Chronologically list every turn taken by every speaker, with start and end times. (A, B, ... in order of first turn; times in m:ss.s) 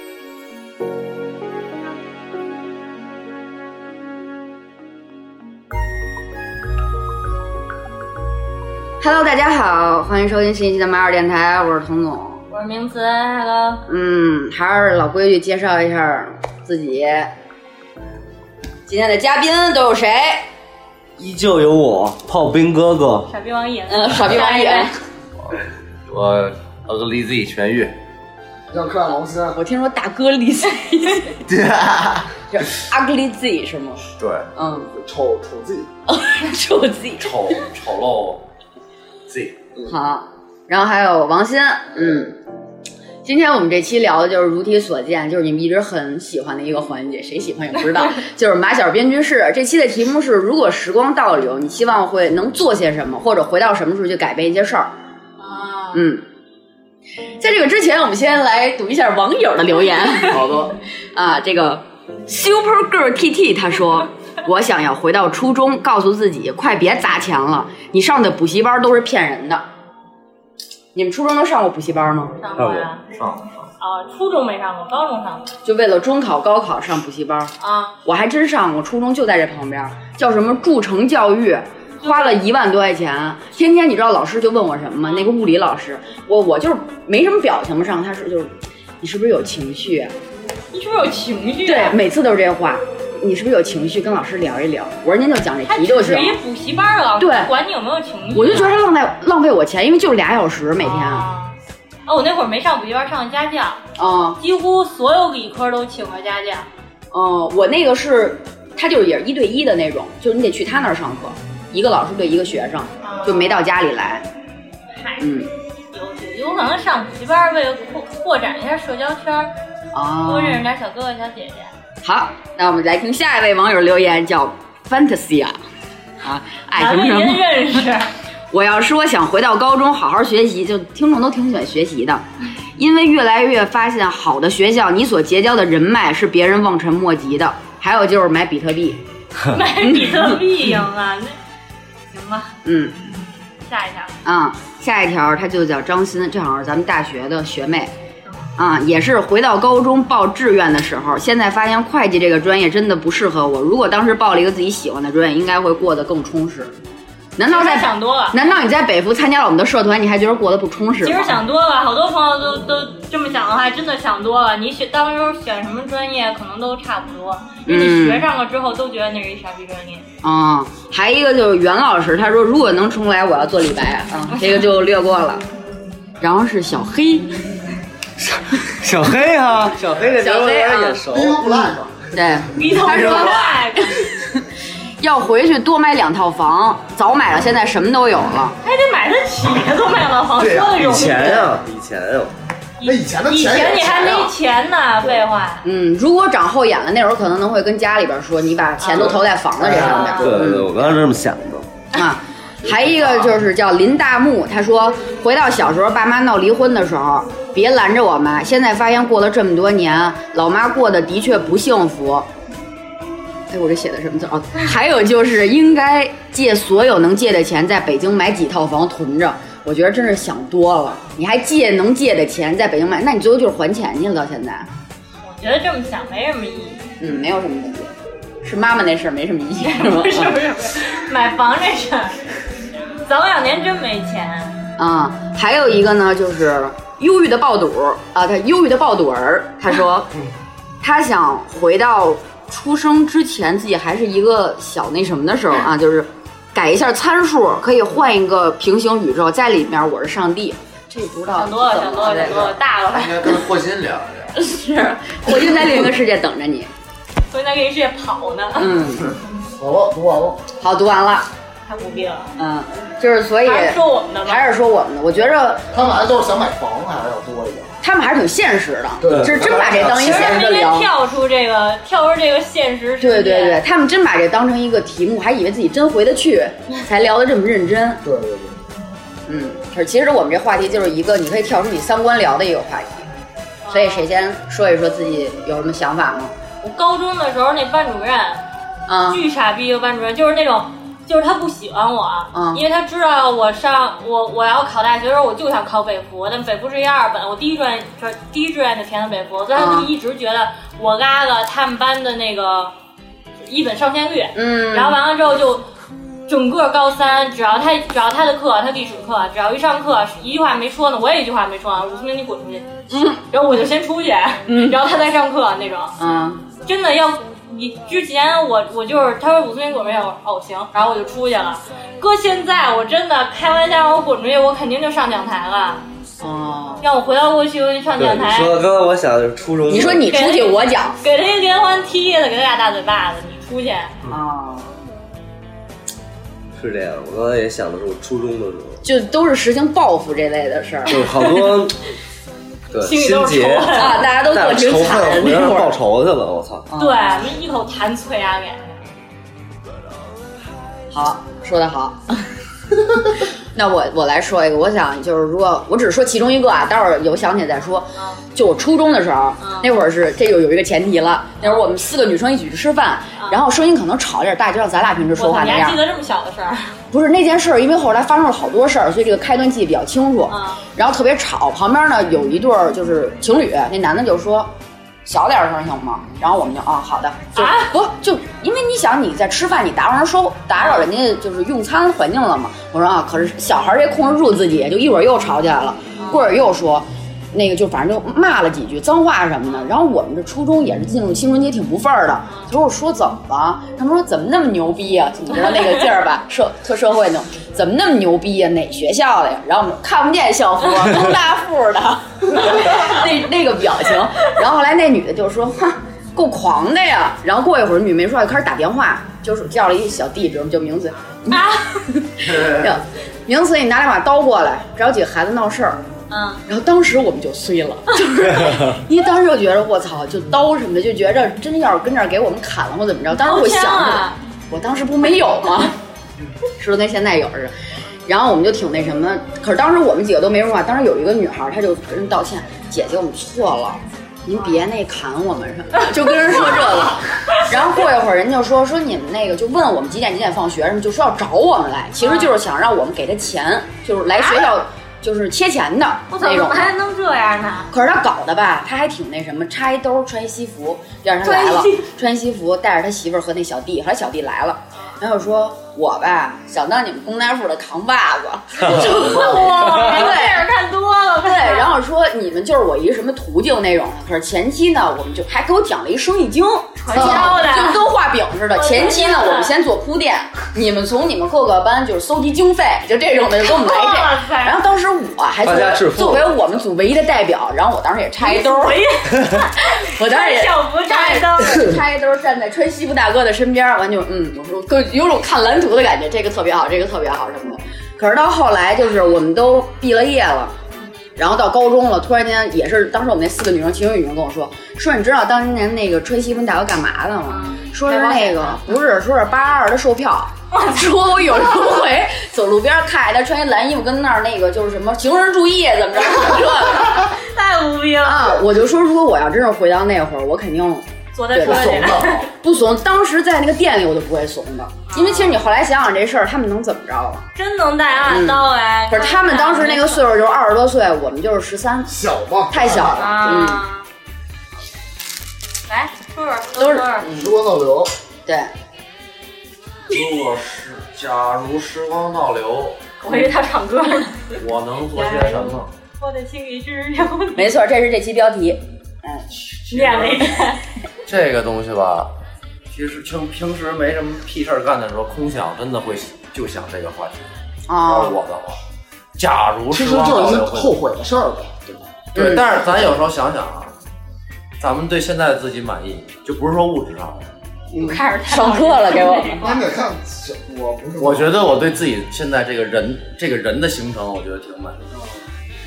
0:09.0-0:12.4 A
0:12.5-0:13.8 B
0:13.9-0:17.3 A
0:18.9-0:20.5 A
0:21.2-0:23.3 C
0:23.3-0:24.9 B
0:23.9-0:25.0 A
0:25.4-0:27.9 D
0:28.7-0:29.6 E
0:29.6-0:31.4 A
0:31.5-0:32.3 D
0:32.5-0:34.0 A
0:34.2-0:34.5 D
0:34.6-0:34.9 A
0:34.9-0:35.9 E
0:36.1-0:37.6 A
0:37.2-0:38.4 D
0:39.3-0:39.7 D
0:39.9-0:42.4 A
0:43.2-0:54.9 A
0:55.4-0:56.0 B
0:55.9-0:56.2 A
0:57.4-1:09.6 A
1:00.3-1:00.7 D
1:10.9-1:12.4 A
1:12.4-1:13.0 B
1:12.6-1:12.9 C
1:13.1-1:13.7 D
1:13.8-1:15.5 B
1:15.6-1:17.5 A
1:17.6-1:17.9 B
1:18.0-1:30.1 A
1:22.0-1:22.4 B
1:30.7-1:32.0 B
1:31.6-1:36.4 A
1:35.7-1:38.8 B
1:37.2-1:37.5 A
1:38.3-1:41.3 A
1:40.8-1:41.6 B
1:42.1-1:43.8 B
1:44.0-1:44.4 A
1:44.4-1:46.7 B
1:47.1-1:54.3 A
1:53.0-1:53.4 B
1:55.0-1:55.2 B
1:55.2-1:55.5 A
1:55.9-1:59.5 B
1:59.9-2:00.6 A
2:00.3-2:01.7 B
2:02.0-2:05.6 A
2:06.2-2:07.5 A
2:06.8-2:08.1 B
2:08.5-2:12.2 A
2:12.8-2:19.0 A
2:19.5-2:21.4 B
2:19.8-2:20.4 A
2:22.1-2:22.5 B
2:22.6-2:23.0 A
2:23.6-2:24.2 B
2:24.2-2:27.9 A
2:28.6-2:36.8 A
2:37.4-2:41.4 A
2:37.5-2:38.4 B
2:41.0-2:50.1 B
2:47.7-2:48.3 A
2:50.2-2:55.4 A
2:56.2-2:57.4 A
2:58.2-3:01.7 C
3:00.2-3:01.0 A
3:01.1-3:02.0 E
3:02.1-3:04.4 A
3:02.6-3:04.1 B
3:03.0-3:03.6 D
3:05.0-3:08.6 A
3:08.6-3:11.5 B
3:10.4-3:12.3 C
3:12.8-3:15.7 B
3:12.8-3:14.3 E
3:15.6-3:20.7 A
3:18.8-3:19.2 B
3:19.6-3:20.6 E
3:19.8-3:20.2 B
3:20.2-3:21.7 C
3:22.0-3:32.3 A
3:33.5-3:44.7 A
3:45.2-3:46.8 B
3:47.0-3:50.4 A
3:49.6-3:52.3 B
3:52.9-3:54.6 B
3:54.8-4:00.1 A
4:00.8-4:12.6 A
4:11.3-4:13.4 B
4:12.9-4:14.4 D
4:14.4-4:16.7 A
4:17.3-4:18.7 B
4:18.6-4:19.1 A
4:19.6-4:20.4 E
4:20.6-4:21.3 A
4:21.7-4:22.3 B
4:22.4-4:25.7 A
4:23.4-4:24.5 B
4:25.7-4:27.8 E
4:27.8-4:30.9 A
4:29.0-4:30.4 E
4:29.8-4:33.6 B
4:33.0-4:38.0 A
4:38.0-4:38.6 E
4:39.3-4:43.1 A
4:43.6-4:44.1 B
4:43.7-4:46.4 A
4:46.6-4:48.4 B
4:48.9-4:49.3 A
4:49.1-5:02.7 B
4:52.3-4:52.6 A
4:59.6-4:59.9 A
5:03.4-5:05.6 B
5:04.4-5:05.0 A
5:06.3-5:12.7 B
5:12.9-5:13.2 A
5:13.3-5:16.0 B
5:14.5-5:14.8 A
5:16.0-5:16.4 A
5:16.6-5:25.8 B
5:26.2-5:26.8 A
5:26.8-5:28.6 B
5:28.0-5:30.0 C
5:29.7-5:31.0 A
5:29.9-5:33.9 B
5:34.1-5:34.7 A
5:36.6-5:38.8 C
5:38.8-5:41.0 A
5:40.9-5:41.6 B
5:40.9-5:41.8 C
5:42.7-5:46.7 C
5:42.8-5:44.0 B
5:43.7-5:45.8 A
5:46.7-5:47.3 A
5:46.8-5:48.8 B
5:50.9-5:52.0 A
5:53.5-6:05.8 A
5:58.0-5:58.2 B
5:59.4-5:59.7 B
6:05.2-6:06.8 B
6:06.9-6:14.5 A
6:10.3-6:10.6 B
6:15.0-6:55.8 A
6:17.4-6:17.7 B
6:20.6-6:20.9 B
6:26.0-6:26.2 B
6:35.4-6:35.8 B
6:42.4-6:42.9 B
6:51.3-6:51.8 B
6:52.2-6:52.8 D
6:56.1-6:56.4 B
6:56.5-7:05.8 A
7:03.2-7:04.2 B
7:06.6-7:07.5 A
7:08.1-7:26.7 A
7:22.0-7:22.4 B
7:24.2-7:24.5 B
7:26.1-7:27.7 B
7:27.7-7:40.5 A
7:31.2-7:31.9 B
7:38.6-7:41.8 B
7:41.2-7:59.0 A
7:46.8-7:47.9 B
7:48.5-7:49.6 B
7:53.4-7:54.6 B
7:55.4-7:56.4 C
7:58.2-8:01.7 B
7:59.7-8:10.5 A
8:11.2-8:27.2 A
8:17.3-8:18.6 B
8:20.5-8:20.9 B
8:27.0-8:28.4 B
8:28.0-8:31.9 A
8:31.1-8:32.3 B
8:31.4-8:32.3 E
8:32.4-8:37.3 A
8:34.9-8:35.4 B
8:37.4-8:40.0 B
8:38.0-8:41.9 A
8:41.9-8:43.4 E
8:42.5-8:43.6 A
8:43.0-8:43.9 B
8:45.7-8:47.1 B
8:46.6-8:47.4 A
8:47.1-8:47.9 E
8:48.3-8:48.5 A
8:49.9-8:52.8 D
8:53.0-8:54.4 B
8:54.4-8:55.7 D
8:54.9-8:57.5 B
8:57.4-8:59.3 A
8:59.5-9:00.2 D
8:59.7-9:00.6 B
9:01.1-9:02.1 D
9:02.7-9:07.3 D
9:07.7-9:08.2 A
9:07.8-9:08.6 D
9:09.2-9:10.8 D
9:09.7-9:11.8 E
9:12.1-9:13.8 D
9:12.2-9:12.5 A
9:14.6-9:17.3 D
9:17.7-9:19.4 A
9:17.8-9:19.7 B
9:19.4-9:21.4 E
9:21.0-9:24.8 D